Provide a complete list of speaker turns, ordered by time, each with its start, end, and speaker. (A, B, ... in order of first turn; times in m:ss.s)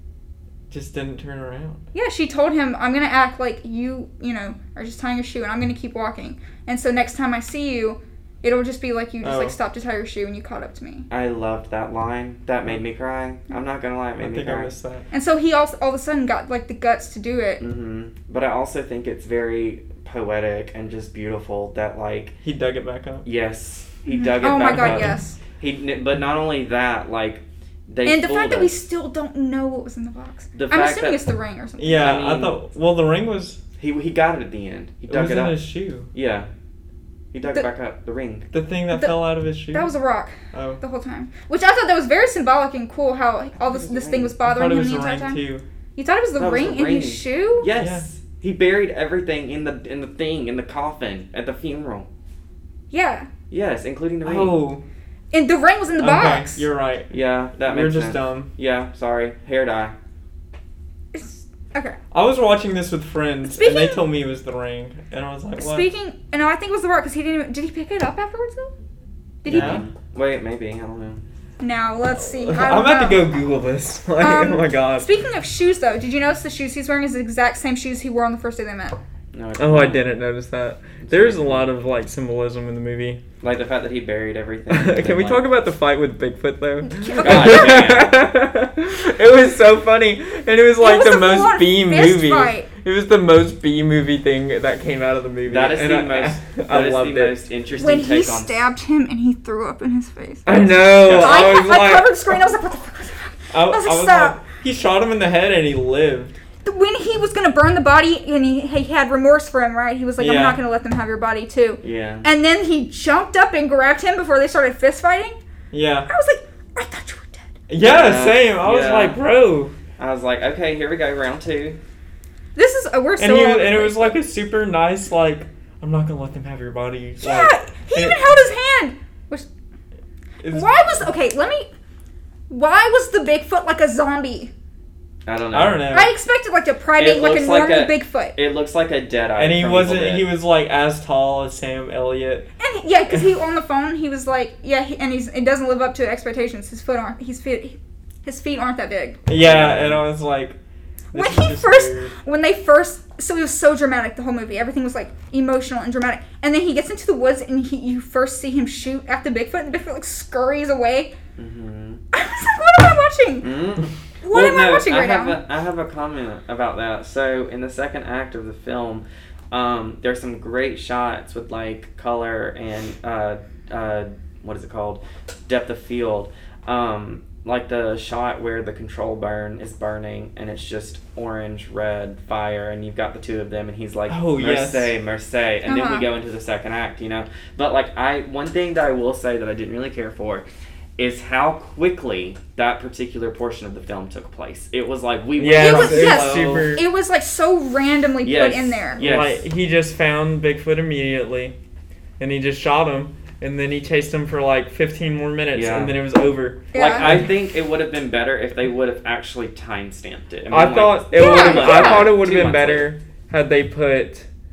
0:00.7-0:01.8 A
0:01.9-0:11.1 B
0:09.2-0:09.6 A
0:11.1-0:14.7 C
0:14.2-0:15.1 A
0:15.1-0:17.6 B
0:17.6-0:22.4 C
0:22.4-0:23.3 A
0:23.2-0:28.8 C
0:24.1-0:25.4 B
0:24.6-0:25.2 A
0:28.0-0:32.2 B
0:30.6-0:31.2 C
0:31.8-0:33.6 A
0:32.0-0:32.6 C
0:33.8-0:36.5 C
0:35.1-0:36.1 A
0:37.3-0:38.5 C
0:38.5-0:39.9 A
0:38.9-0:45.4 B
0:40.5-0:40.8 A
0:43.7-0:44.3 C
0:44.4-0:45.6 A
0:46.0-0:47.7 B
0:46.4-0:52.1 C
0:47.8-0:48.0 A
0:52.9-0:53.3 B
0:53.5-0:54.6 C
0:54.2-0:54.8 A
0:55.3-0:56.7 B
0:56.0-0:57.1 A
0:57.1-1:00.0 C
0:57.6-0:58.5 A
1:01.1-1:02.0 B
1:02.1-1:05.9 A
1:03.5-1:04.0 B
1:05.6-1:08.7 B
1:09.4-1:09.8 B
1:09.4-1:09.8 A
1:09.4-1:11.2 C
1:11.6-1:13.3 B
1:12.4-1:15.1 A
1:14.2-1:19.0 B
1:19.3-1:20.1 C
1:19.6-1:23.2 A
1:21.0-1:21.7 C
1:23.4-1:25.5 C
1:24.7-1:37.4 A
1:26.8-1:27.9 B
1:27.1-1:28.2 C
1:30.8-1:32.7 B
1:35.5-1:38.6 C
1:37.8-1:44.4 B
1:40.5-1:42.3 A
1:41.0-1:41.6 C
1:43.5-1:46.3 A
1:46.6-1:55.4 B
1:50.2-1:50.6 A
1:51.8-1:52.3 C
1:55.7-1:56.1 A
1:56.1-1:57.5 B
1:57.7-1:59.8 A
1:57.8-1:59.2 C
2:00.0-2:01.8 C
2:02.6-2:04.2 B
2:03.2-2:08.3 A
2:07.2-2:09.5 B
2:10.4-2:10.9 A
2:10.5-2:11.7 B
2:12.5-2:14.5 B
2:15.3-2:15.9 C
2:15.5-2:16.1 A
2:15.9-2:18.4 B
2:17.0-2:20.3 C
2:19.4-2:22.4 A
2:22.6-2:29.2 B
2:29.3-2:30.6 A
2:29.4-2:30.0 C
2:31.1-2:32.2 A
2:31.1-2:41.1 B
2:41.4-2:42.0 C
2:42.1-2:43.5 B
2:43.4-3:10.5 C
2:44.2-2:45.4 B
3:04.1-3:04.9 A
3:05.7-3:06.1 B
3:11.0-3:16.8 C
3:15.4-3:16.9 A
3:15.6-3:19.0 B
3:18.2-3:19.4 C
3:19.0-3:21.6 A
3:22.2-3:27.3 A
3:25.5-3:26.0 C
3:26.7-3:27.2 B
3:26.7-3:32.9 C
3:30.5-3:34.3 A
3:31.1-3:32.1 B